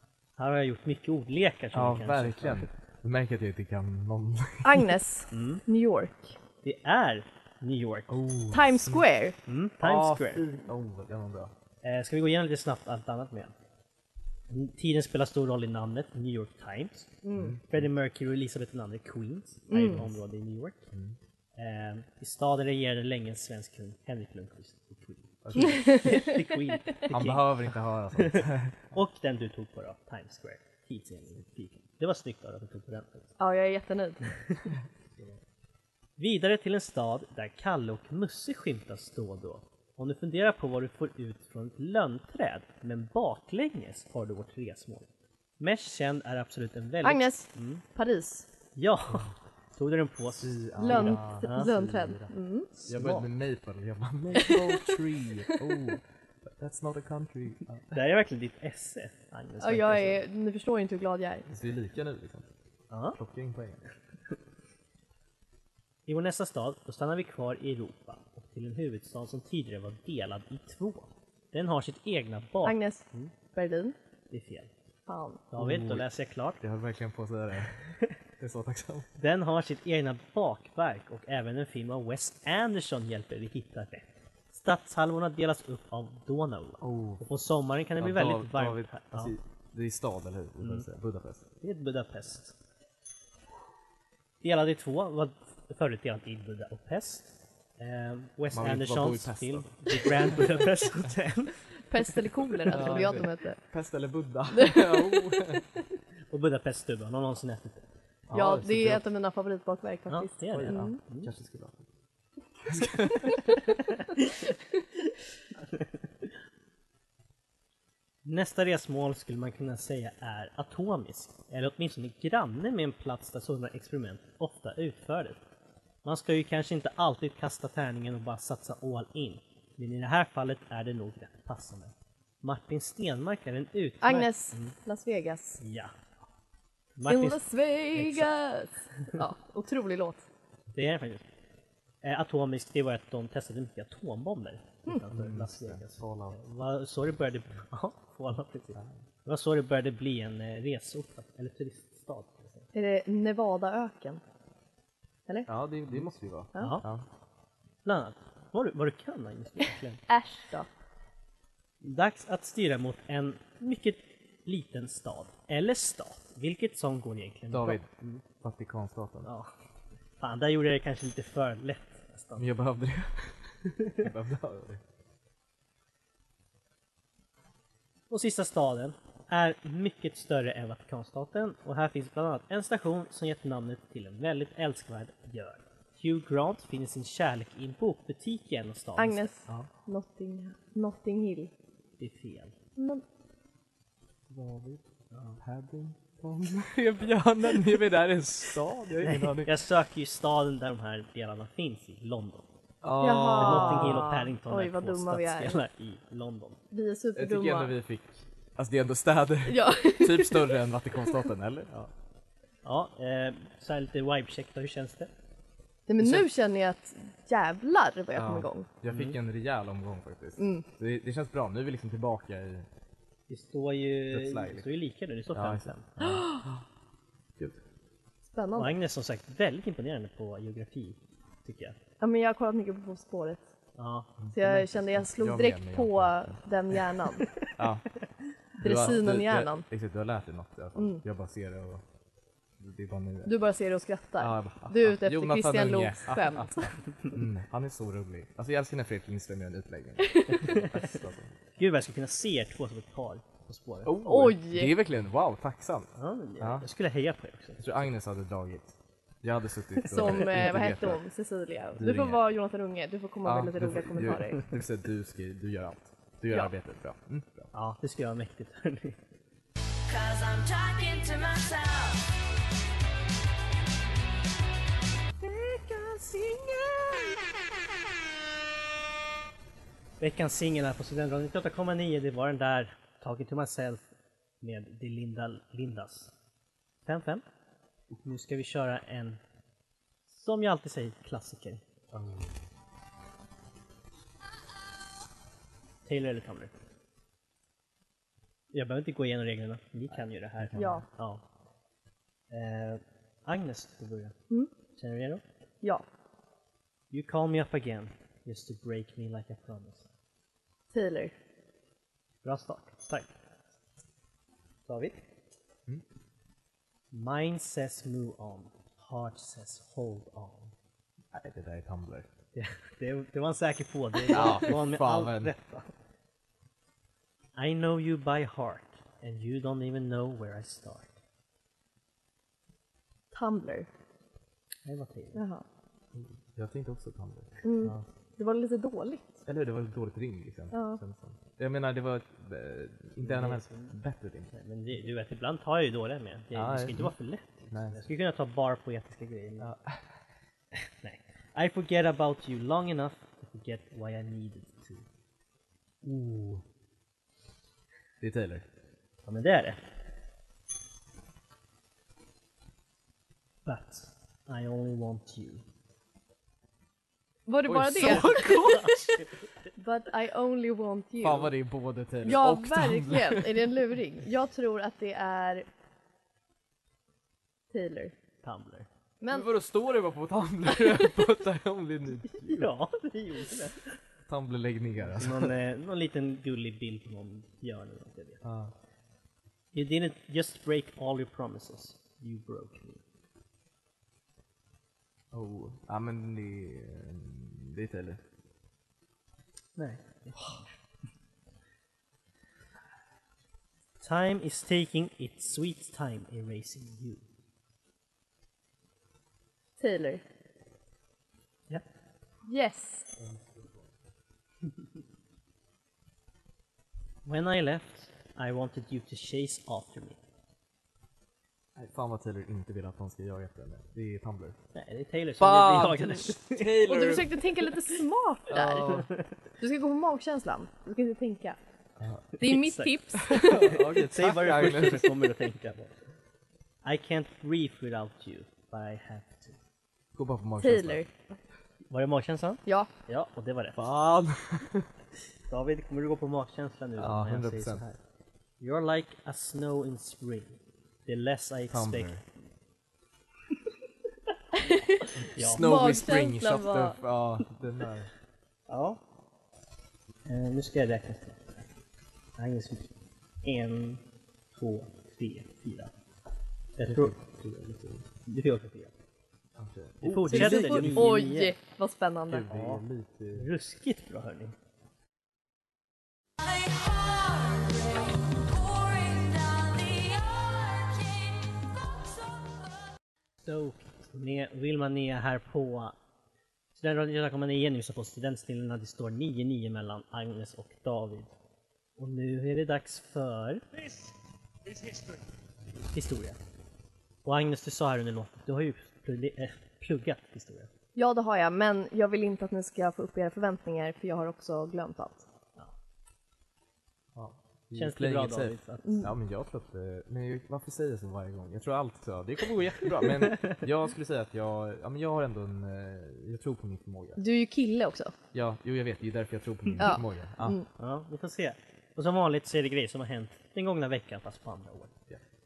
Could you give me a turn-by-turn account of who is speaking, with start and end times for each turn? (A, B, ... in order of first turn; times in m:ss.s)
0:00.4-0:02.7 A
0:01.7-0:04.9 B
0:04.6-0:06.4 C
0:05.3-0:05.6 A
0:06.6-0:08.2 A
0:08.1-0:09.0 B
0:08.5-0:09.4 C
0:09.4-0:10.4 A
0:09.8-0:11.5 B
0:11.8-0:13.5 A
0:14.5-0:17.1 A
0:17.2-0:17.6 C
0:17.3-0:17.8 B
0:17.7-0:20.9 A
0:19.7-0:20.0 C
0:20.9-0:21.2 B
0:21.5-0:33.3 A
0:25.4-0:26.2 B
0:25.6-0:26.3 C
0:27.1-0:28.9 B
0:33.4-0:34.3 C
0:36.2-0:45.1 A
0:45.6-0:47.8 A
0:47.0-0:48.5 C
0:48.7-0:51.7 A
0:50.4-0:52.3 B
0:50.8-0:52.7 C
0:52.7-0:53.3 A
0:52.9-0:58.0 B
0:54.4-0:54.8 C
0:57.9-1:00.2 A
0:59.6-1:01.5 C
1:01.5-1:02.5 B
1:02.9-1:03.2 A
1:03.1-1:03.8 B
1:06.1-1:13.3 A
1:12.6-1:14.0 C
1:14.3-1:14.7 A
1:15.1-1:15.5 C
1:15.5-1:16.6 A
1:15.6-1:16.1 B
1:16.6-1:17.8 B
1:18.4-1:19.1 B
1:19.2-1:29.4 A
1:26.8-1:27.2 B
1:28.0-1:31.4 B
1:30.6-1:30.9 A
1:31.6-1:32.5 A
1:34.4-1:41.6 A
1:38.5-1:40.6 B
1:41.9-1:43.6 C
1:42.7-1:45.6 B
1:42.7-1:43.2 A
1:44.5-1:45.6 C
1:46.3-1:47.9 A
1:48.3-1:49.1 B
1:48.3-1:51.0 C
1:50.1-1:51.3 A
1:50.5-1:51.8 B
1:52.6-1:53.4 B
1:58.2-2:05.4 A
2:06.0-2:14.7 A
2:14.0-2:15.6 C
2:15.6-2:16.1 A
2:17.0-2:18.3 A
2:17.1-2:20.2 C
2:20.7-2:21.2 A
2:22.0-2:32.7 A
2:25.1-2:26.4 B
2:32.7-2:34.2 C
2:35.4-2:37.0 B
2:36.6-2:36.8 A
2:37.8-2:40.0 A
2:40.1-2:40.7 C
2:41.8-2:48.2 A
2:47.5-2:47.9 B
2:48.4-2:49.3 B
2:49.2-2:49.5 A
2:50.2-2:52.5 A
2:52.4-2:54.8 B
2:58.1-3:09.7 A
3:09.0-3:11.5 C
3:12.0-3:12.5 A
3:12.8-3:13.0 C
3:14.3-3:14.8 B
3:15.1-3:15.4 A
3:15.4-3:19.5 B
3:19.0-3:22.5 A
3:22.8-3:24.1 B
3:23.0-3:25.6 C
3:23.3-3:26.6 A
3:26.7-3:27.7 C
3:27.1-3:31.7 B
3:29.4-3:30.6 C
3:32.6-3:35.1 A
3:35.9-3:38.7 C
3:38.1-3:42.7 B
3:38.9-3:39.2 A
3:40.4-3:40.6 C
3:43.3-3:46.0 A
3:44.1-3:44.7 B
3:45.3-3:46.6 B
3:48.3-3:48.7 C
3:48.5-3:51.8 A
3:52.0-3:53.4 C
3:53.8-3:54.1 A
3:54.2-3:56.4 B
3:54.3-3:57.4 C
3:57.5-3:57.9 B
3:58.6-4:01.8 B
3:58.6-3:59.6 C
4:00.8-4:01.0 C
4:02.6-4:03.4 B
4:03.2-4:06.7 C
4:04.2-4:11.3 B
4:10.4-4:10.9 A
4:11.6-4:13.9 A
4:13.8-4:16.7 B
4:14.0-4:14.7 C
4:16.0-4:17.6 A
4:17.6-4:21.0 B
4:19.8-4:24.4 C
4:21.7-4:22.2 B
4:23.2-4:27.5 B
4:27.5-4:29.0 A
4:29.9-4:32.1 D
4:35.5-4:36.5 C
4:40.0-4:43.9 A
4:44.4-4:46.1 A
4:46.8-4:47.2 A
4:47.9-4:49.2 A
4:50.1-4:51.6 A
4:51.9-4:52.3 B
4:55.8-4:56.6 A
4:58.5-5:01.2 A
5:00.4-5:00.8 B
5:00.5-5:00.8 C
5:02.3-5:04.1 A
5:04.7-5:05.2 A
5:06.9-5:09.9 A
5:10.7-5:11.1 C
5:12.2-5:13.1 A
5:14.7-5:15.0 A
5:16.9-5:20.5 A
5:21.1-5:22.1 B
5:22.3-5:25.7 A
5:24.0-5:25.3 B
5:27.4-5:31.0 A
5:33.1-5:33.7 C
5:34.6-5:35.2 A
5:35.1-5:35.4 C
5:35.9-5:37.8 B
5:37.4-5:39.2 C
5:39.2-5:44.3 B
5:40.5-5:40.8 C
5:43.0-5:43.8 A
5:44.3-5:49.5 A
5:46.3-5:46.9 B
5:47.5-5:47.8 B
5:49.4-5:49.8 B
5:50.5-5:54.8 A
5:55.8-5:56.4 A
5:58.0-5:58.4 B
5:59.0-5:59.6 A
6:03.4-6:05.4 A
6:07.2-6:08.8 C
6:07.4-6:09.0 B
6:07.9-6:08.7 A
6:09.6-6:11.3 C
6:11.0-6:13.5 B
6:12.0-6:15.4 C
6:17.5-6:17.9 C
6:18.2-6:18.7 A
6:19.0-6:19.3 C
6:19.1-6:22.5 B
6:22.2-6:23.8 A
6:24.1-6:25.4 B
6:24.8-6:28.2 A
6:28.2-6:28.5 B
6:29.5-6:32.8 A
6:35.1-6:38.0 B
6:39.6-6:40.4 A
6:43.8-6:47.0 A
6:49.6-6:50.0 C
6:52.3-6:52.9 C
6:53.0-6:53.7 B
6:57.0-7:00.0 A
7:01.6-7:04.4 B
7:04.5-7:06.6 A
7:05.2-7:07.2 B
7:06.6-7:08.8 C
7:08.3-7:08.9 B
7:08.6-7:09.1 A
7:09.4-7:11.4 C
7:11.8-7:12.0 B
7:12.2-7:13.6 C
7:12.2-7:15.8 A
7:12.9-7:15.1 B
7:16.6-7:19.4 A
7:19.9-7:20.8 B
7:20.4-7:20.9 C
7:21.7-7:23.7 A
7:23.5-7:24.7 B
7:25.3-7:27.8 A
7:26.8-7:27.6 B
7:28.4-7:31.9 A
7:31.5-7:32.0 B
7:34.4-7:36.8 C
7:35.0-7:37.9 B
7:35.1-7:35.5 A
7:38.5-7:38.8 A
7:40.0-7:41.4 A
7:42.2-7:43.8 A
7:44.3-7:45.7 A
7:46.6-7:47.0 A
7:46.6-7:47.8 B
7:48.0-7:48.7 A
7:49.4-7:51.0 B
7:49.8-7:51.3 A
7:50.1-7:52.3 C
7:52.1-7:53.3 B
7:52.3-7:54.3 A
7:56.2-8:02.5 D
8:03.2-8:05.8 A
8:06.5-8:11.1 A
8:11.8-8:13.4 A
8:15.7-8:16.2 A
8:17.0-8:20.5 A
8:20.7-8:25.0 C
8:26.9-8:37.0 B
8:27.5-8:28.8 A
8:28.6-8:28.9 C
8:32.8-8:33.4 A
8:37.0-8:37.9 C
8:38.1-8:40.4 B
8:39.6-8:40.4 C
8:40.6-8:44.7 A